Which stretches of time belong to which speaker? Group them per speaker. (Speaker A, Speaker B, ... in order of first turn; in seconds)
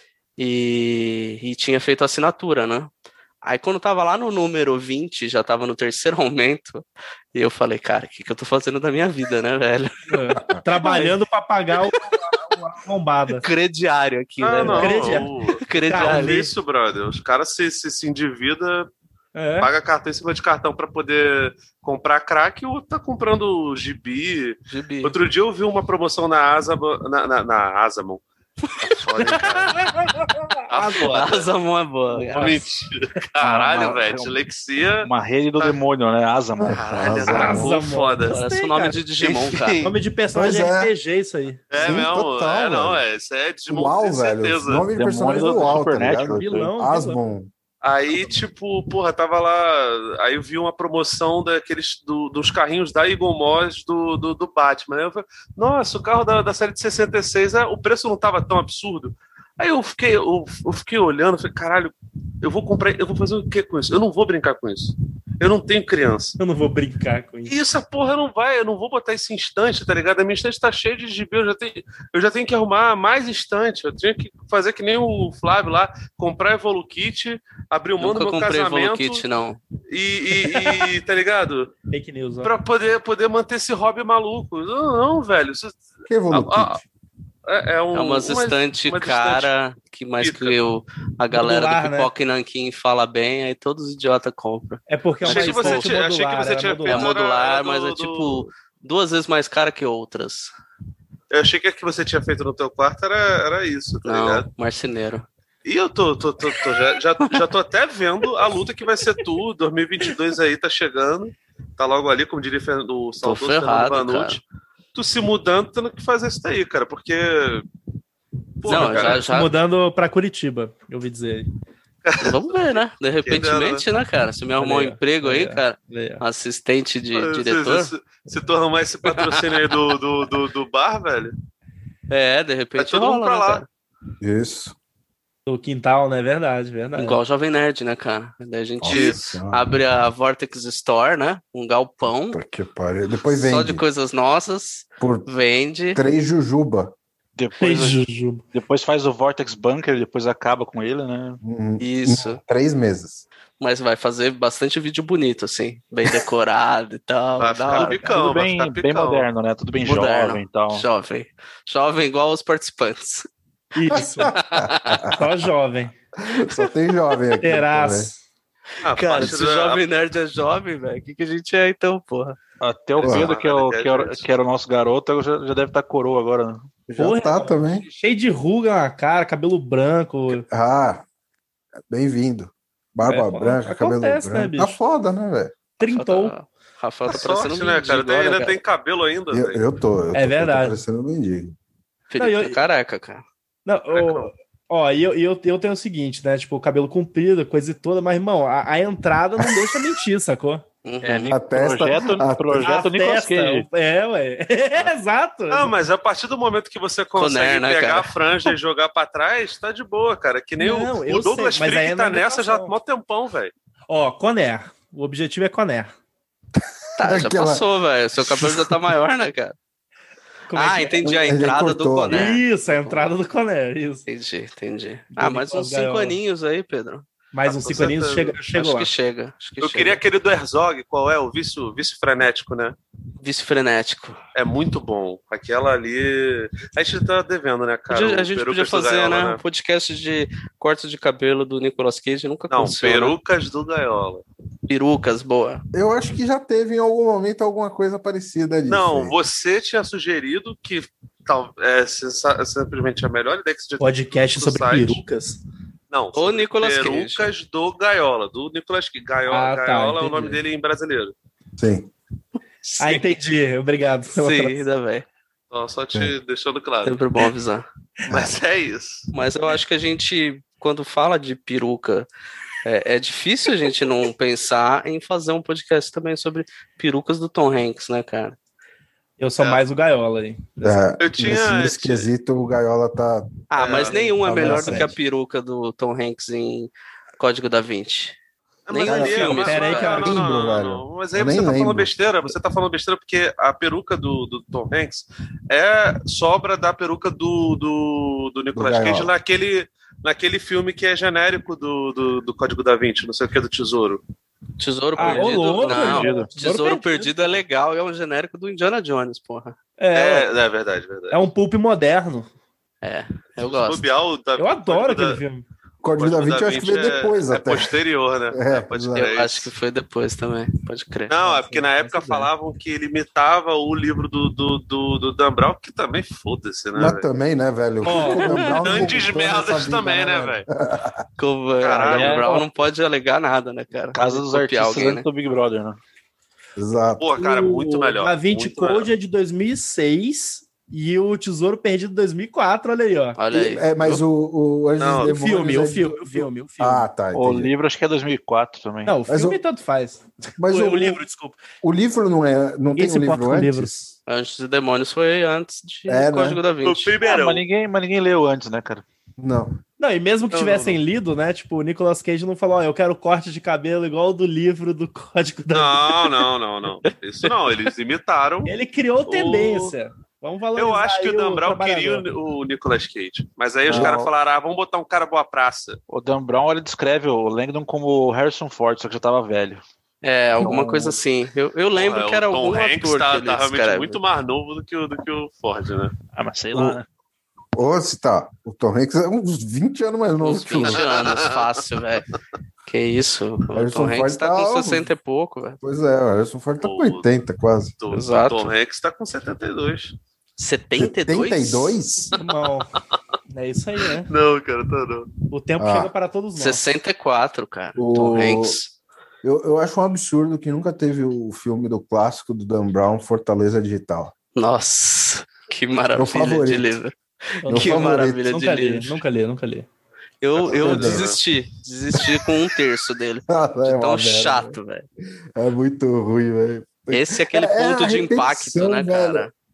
Speaker A: 0.4-2.9, 3.4-6.8, 7.3-11.1, 13.4-16.4, 24.7-25.1, 28.9-29.5, 31.0-32.6, 38.3-39.9, 78.0-79.6, 87.9-95.9, 96.9-100.5, 104.0-105.3, 113.2-114.4, 118.7-119.5, 122.2-127.9, 129.1-129.7, 132.1-133.7, 137.0-142.4, 143.3-146.0, 151.8-152.4, 153.6-158.0, 159.8-163.3, 164.3-165.1, 168.9-172.4, 185.9-188.6, 192.1-193.2, 200.8-201.3, 207.2-208.1, 217.0-219.6, 220.5-223.1, 224.1-227.1, 228.6-230.0, 233.2-234.2, 237.9-243.2, 244.7-245.6, 256.1-257.3, 262.6-263.1, 264.2-265.1, 266.9-267.7, 269.1-272.1, 272.6-278.4, 283.5-288.2, 288.7-290.1, 304.6-309.6, 312.8-313.8, 318.9-321.1, 331.2-335.1, 343.2-344.0, 354.1-357.0, 380.0-384.0, 390.2-392.1, 392.7-395.6, 397.9-398.5, 400.4-401.8, 406.4-408.7, 414.4-416.9, 417.5-419.0, 420.2-424.9, 426.9-429.3
Speaker B: 10.1-13.5, 14.6-15.3, 15.9-16.5, 19.4-19.7, 29.8-30.4, 37.3-39.0, 39.8-42.0, 45.3-45.8, 46.3-47.2, 66.4-67.5, 81.9-82.5, 91.3-92.1, 94.9-97.1, 118.7-121.5, 124.6-126.2, 135.5-137.2, 147.6-148.4, 163.8-164.3, 165.1-165.9, 167.4-168.2, 177.0-180.4, 183.1-184.8, 185.8-186.3, 190.1-190.8, 192.2-192.6, 193.7-200.6, 202.6-205.7, 210.6-212.8, 213.9-215.9, 220.5-221.4, 222.1-224.1, 225.1-226.2, 227.3-228.9, 253.8-255.4, 259.3-260.4, 262.8-264.6, 279.2-280.9, 284.0-284.9, 289.4-290.3, 305.0-307.4, 309.8-310.3, 311.1-312.3, 314.4-315.5, 321.2-322.3, 327.8-328.9, 337.2-343.2, 345.1-346.9, 348.9-351.4, 352.7-353.9, 359.8-366.2, 368.5-372.1, 402.1-402.7, 403.3-404.1, 405.3-406.6, 417.4-419.7
Speaker C: 14.4-18.9, 19.6-28.2, 28.8-29.8, 30.7-31.5, 32.1-35.8, 36.7-38.4, 39.2-39.9, 41.7-44.9, 47.8-66.4, 67.5-79.2, 79.9-81.7, 82.4-86.8, 87.5-89.5, 90.2-90.6, 95.2-98.5, 101.3-104.5, 105.7-114.4, 115.0-117.7, 118.6-119.2, 122.0-123.8, 127.2-131.3, 132.8-133.6, 138.9-139.2, 157.4-159.3, 168.8-169.8, 173.0-174.3, 187.1-189.6, 193.9-194.3, 205.5-213.5, 227.5-228.4, 229.6-232.8, 234.3-239.4, 242.5-244.2, 248.7-255.0, 255.9-261.1, 265.5-267.0, 268.1-269.1, 281.0-282.1, 283.6-284.1, 288.7-304.0, 305.0-305.8, 309.9-311.2, 313.4-315.2, 316.0-319.5, 321.1-327.1, 328.5-330.5, 331.6-332.3, 337.0-338.9, 344.8-345.1, 356.6-357.4, 360.3-360.8, 365.5-368.5, 369.1-369.7, 370.6-375.8, 381.7-385.9, 390.6-391.4, 396.6-397.1, 397.8-400.0, 404.0-405.1, 420.4-421.2
Speaker D: 33.4-34.4, 35.0-37.1, 45.0-46.7, 147.4-148.0, 148.5-151.4, 157.8-160.9, 172.6-176.7, 201.0-203.7, 305.0-306.3, 331.9-332.4, 333.9-335.8, 347.1-349.0, 357.0-358.8, 373.7-374.1, 375.9-379.6, 380.4-380.9, 386.1-386.9
Speaker E: 36.6-37.7, 40.3-40.9, 41.7-43.0, 43.7-47.5, 86.1-86.8, 134.2-134.8, 138.8-139.7, 142.3-143.8, 145.0-145.3, 145.9-146.9, 151.4-153.2, 163.9-165.2, 166.2-168.1, 173.0-173.3, 176.9-177.8, 180.3-181.1, 181.9-185.6, 189.3-191.6, 201.3-202.7, 216.6-217.7, 218.2-218.8, 221.0-222.4, 245.7-249.2, 261.6-261.9, 280.6-283.3, 283.9-285.0, 288.9-291.9, 298.5-299.1, 315.8-317.8, 318.3-319.1, 326.8-331.0, 336.6-337.1, 343.3-347.5, 349.1-349.4, 350.4-351.0, 351.6-353.7, 355.9-356.4, 359.2-359.6, 373.7-374.0, 387.6-390.8, 393.5-394.9, 395.6-397.7, 400.8-402.1, 405.6-405.9, 407.8-408.6, 409.2-414.1, 415.9-416.7, 417.5-418.2, 420.5-421.1, 423.3-424.6, 425.4-429.3